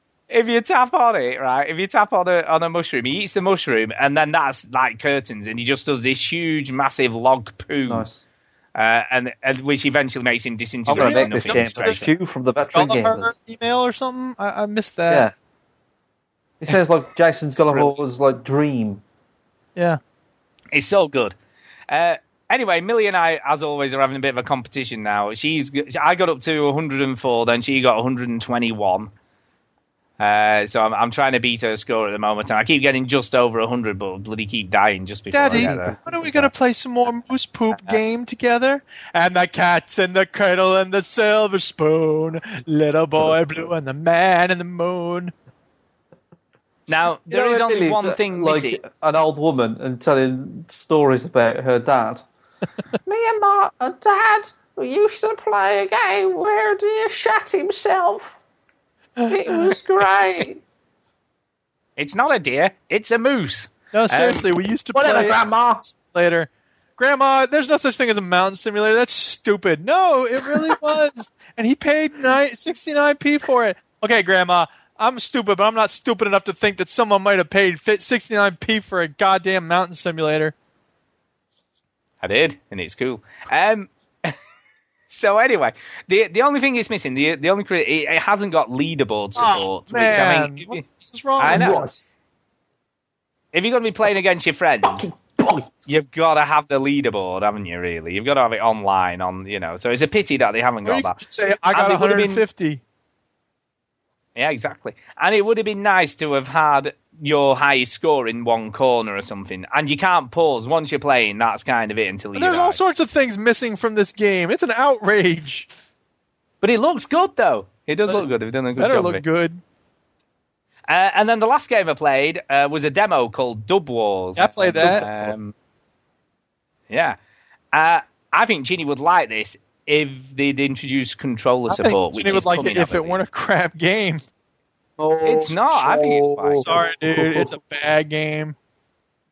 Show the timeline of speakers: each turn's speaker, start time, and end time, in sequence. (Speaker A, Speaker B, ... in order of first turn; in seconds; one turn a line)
Speaker A: 0.3-8.1
Speaker B: 7.9-8.2
Speaker A: 8.7-12.1
Speaker B: 10.9-13.3
Speaker C: 10.9-12.0
Speaker C: 12.7-15.3
Speaker B: 16.6-19.0
Speaker A: 17.7-17.9
Speaker A: 20.7-21.4
Speaker A: 21.9-29.1
Speaker A: 30.2-36.0
Speaker C: 35.3-45.3
Speaker B: 35.5-36.5
Speaker A: 46.9-48.8
Speaker B: 47.3-52.2
Speaker B: 53.0-58.4
Speaker C: 59.2-59.7
Speaker B: 59.3-60.6
Speaker A: 62.0-64.5
Speaker C: 63.9-80.5
Speaker B: 64.9-65.8
Speaker A: 82.2-84.3
Speaker A: 85.1-90.8
Speaker C: 89.3-91.7
Speaker A: 91.4-91.8
Speaker B: 91.4-92.0
Speaker A: 93.5-95.1
Speaker B: 94.8-95.7
Speaker A: 95.8-101.2
Speaker C: 100.8-102.8
Speaker A: 101.7-102.4
Speaker A: 104.3-112.8
Speaker C: 112.3-115.7
Speaker A: 116.6-119.2
Speaker C: 118.1-119.6
Speaker A: 120.9-125.5
Speaker C: 124.4-125.0
Speaker B: 124.9-125.2
Speaker A: 126.9-127.2
Speaker A: 127.7-133.2
Speaker C: 131.7-134.2
Speaker B: 135.0-137.6
Speaker A: 135.2-136.7
Speaker C: 136.6-138.5